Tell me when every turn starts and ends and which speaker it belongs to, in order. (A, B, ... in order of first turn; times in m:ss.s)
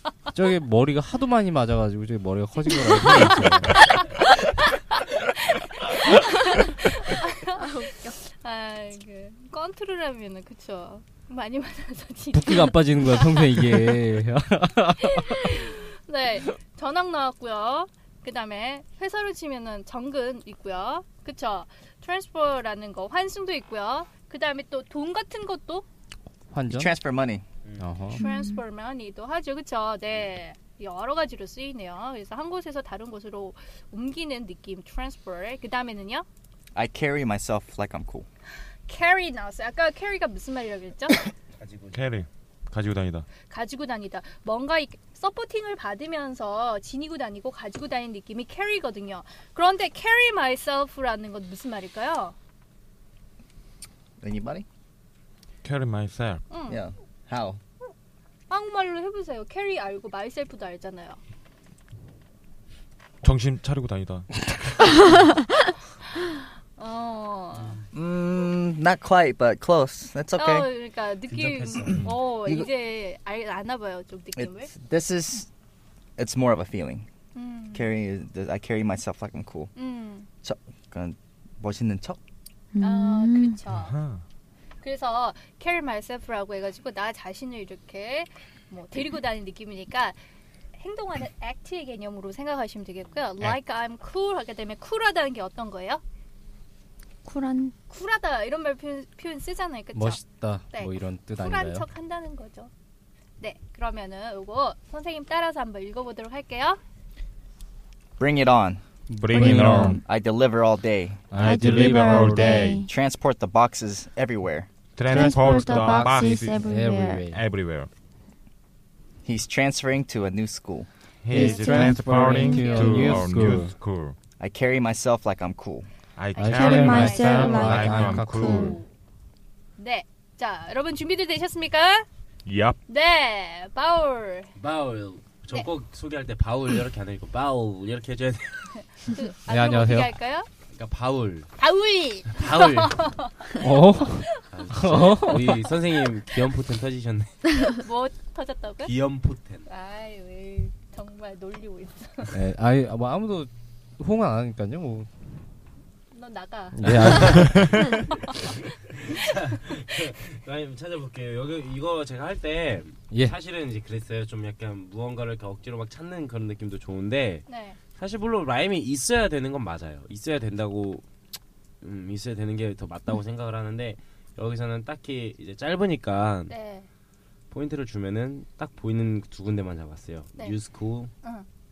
0:00.3-0:03.9 A
0:03.0-0:13.7 B
0:07.6-0:08.2 C
0:12.3-0:15.6 A
0:15.0-0:25.8 B
0:26.5-0:26.9 A
0:26.7-0:27.4 D
0:27.8-0:28.2 A
0:28.1-0:36.2 B
0:28.2-0:28.6 C
0:36.7-0:38.3 D
0:38.9-0:41.2 B
0:41.6-0:42.0 E
0:41.9-0:43.3 F
0:43.5-0:52.3 B
0:54.2-0:54.6 D
0:55.6-0:56.5 F
0:56.5-0:56.8 B
0:56.7-0:57.6 D
0:58.5-1:01.2 B
1:03.2-1:04.9 F
1:06.8-1:07.8 B
1:07.9-1:10.7 D
1:10.3-1:14.7 B
1:11.3-1:12.1 E
1:12.3-1:12.7 D
1:14.4-1:15.5 D
1:16.2-1:17.1 D
1:17.3-1:17.9 B
1:17.7-1:19.7 D
1:19.8-1:20.3 B
1:20.4-1:22.2 D
1:22.7-1:23.6 C
1:22.8-1:24.0 B
1:23.7-1:24.2 F
1:24.8-1:30.2 B
1:30.8-1:36.0 B
1:37.2-1:37.7 C
1:37.9-1:42.7 B
1:39.9-1:41.8 A
1:43.4-1:46.8 B
1:48.2-1:48.8 D
1:49.1-1:50.0 A
1:49.2-1:50.0 F
1:49.3-1:50.0 C
1:49.5-1:51.2 D
1:51.3-1:52.7 A
1:51.3-1:52.8 F
1:51.4-1:52.9 C
1:52.8-1:54.7 D
1:55.0-1:56.5 F
1:55.0-1:57.2 C
1:55.1-1:57.4 A
1:57.3-1:57.9 F
1:59.2-2:00.9 D
2:01.2-2:04.2 F
2:01.3-2:03.7 A
2:01.3-2:02.5 C
2:02.3-2:03.4 B
2:04.4-2:05.9 D
2:06.2-2:08.8 F
2:06.3-2:08.9 B
2:06.4-2:08.8 A
2:06.6-2:08.7 C
2:09.8-2:12.0 B
2:12.4-2:12.8 F
2:12.9-2:14.5 B
2:14.6-2:18.8 E
2:19.0-2:20.5 B
2:19.5-2:20.1 A
2:20.7-2:21.5 E
2:21.6-2:23.5 B
2:22.3-2:23.1 E
2:23.6-2:25.7 A
2:24.0-2:27.4 E
2:24.2-2:24.6 B
2:25.4-2:26.0 B
2:27.8-2:28.9 B
2:28.8-2:29.7 E
2:29.7-2:32.3 B
2:32.3-2:35.1 A
2:36.1-2:37.4 B
2:36.7-2:37.7 A
2:36.9-2:37.6 E
2:37.5-2:37.8 F
2:38.6-2:47.4 E
2:47.5-2:47.8 B
2:48.0-2:51.0 E
2:51.8-2:56.6 E
2:56.5-2:56.9 B
2:57.5-3:01.1 E